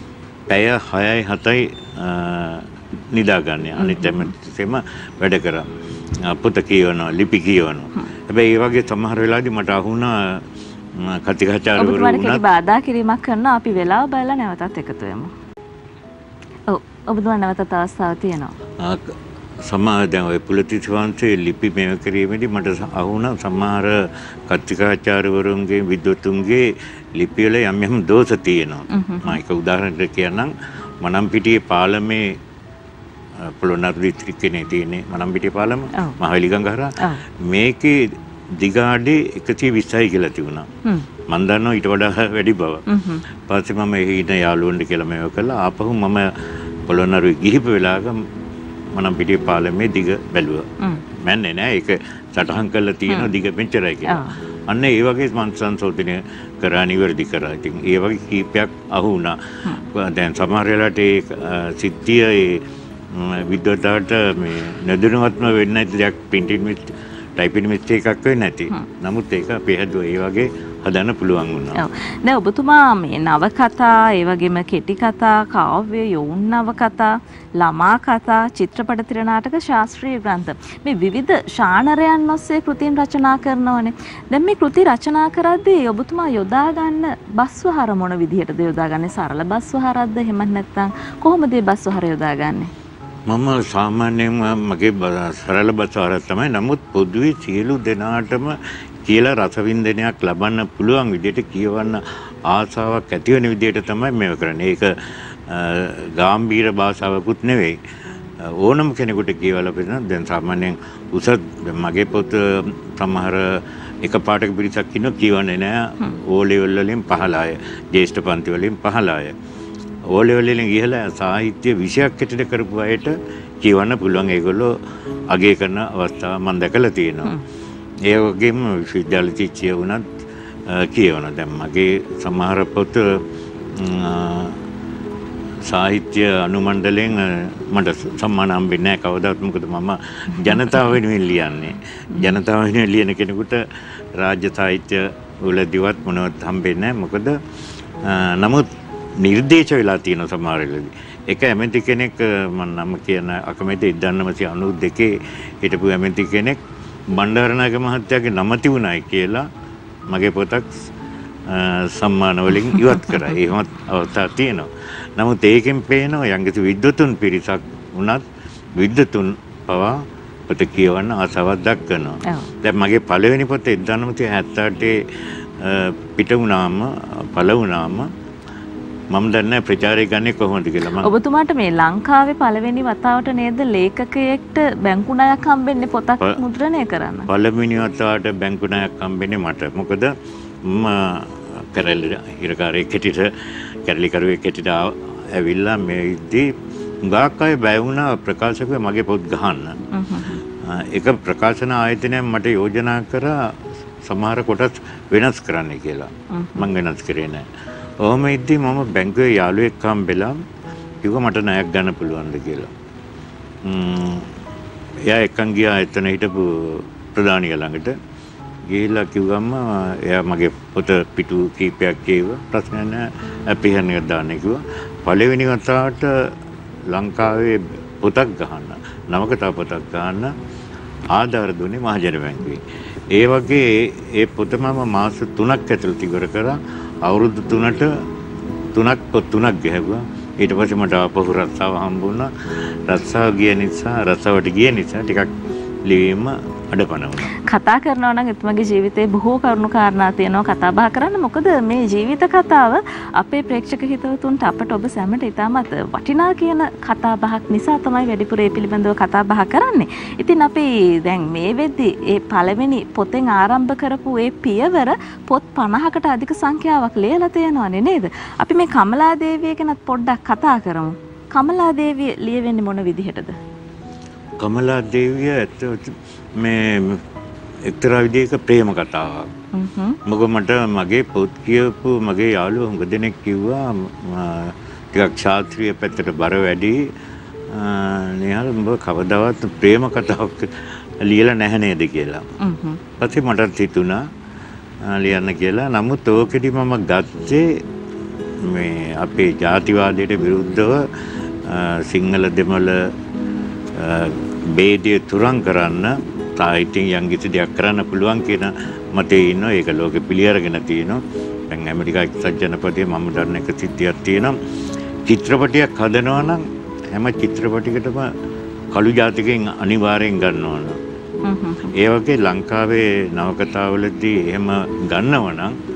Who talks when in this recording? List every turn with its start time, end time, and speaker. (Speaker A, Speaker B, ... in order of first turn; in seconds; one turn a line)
Speaker A: 0.5-12.4
Speaker B: 3.8-4.3
Speaker B: 11.8-15.3
Speaker B: 16.7-18.6
Speaker A: 18.8-32.4
Speaker B: 28.9-29.4
Speaker A: 33.4-40.7
Speaker A: 41.3-42.9
Speaker B: 42.9-43.2
Speaker A: 43.4-48.3
Speaker A: 48.9-71.8
Speaker B: 54.1-54.4
Speaker B: 71.8-92.7
Speaker A: 93.3-107.8
Speaker A: 108.4-119.4
Speaker A: 120.1-124.8
Speaker A: 125.3-127.4
Speaker A: 128.1-133.2
Speaker A: 133.7-134.6
Speaker A: 135.6-143.6
Speaker B: 140.4-140.8
Speaker A: 144.2-147.4
Speaker A: 148.0-156.6
Speaker A: 157.1-159.5
Speaker A: 160.1-160.8
Speaker A: 161.5-168.2
Speaker A: 168.8-175.0
Speaker A: 175.6-178.1
Speaker A: 179.1-181.1
Speaker B: 181.0-187.3
Speaker A: 187.3-196.5
Speaker A: 197.0-199.8
Speaker B: 199.9-200.4
Speaker A: 200.6-203.4
Speaker A: 204.0-207.5
Speaker B: 206.3-206.7
Speaker A: 208.0-210.4
Speaker A: 211.0-212.7
Speaker A: 213.6-214.3
Speaker A: 215.1-218.0
Speaker A: 218.7-226.3
Speaker A: 226.9-230.3
Speaker A: 231.1-237.9
Speaker A: 238.7-242.3
Speaker A: 242.9-245.3
Speaker A: 245.8-247.3
Speaker B: 247.3-273.4
Speaker A: 274.4-277.0
Speaker A: 277.7-279.3
Speaker B: 279.5-280.0
Speaker A: 280.1-286.9
Speaker A: 287.5-292.3
Speaker B: 292.4-292.8
Speaker A: 293.0-294.0
Speaker A: 294.8-297.6
Speaker A: 298.4-302.9
Speaker A: 303.7-314.4
Speaker A: 315.1-318.1
Speaker A: 318.7-320.8
Speaker B: 321.2-321.7
Speaker A: 321.7-325.6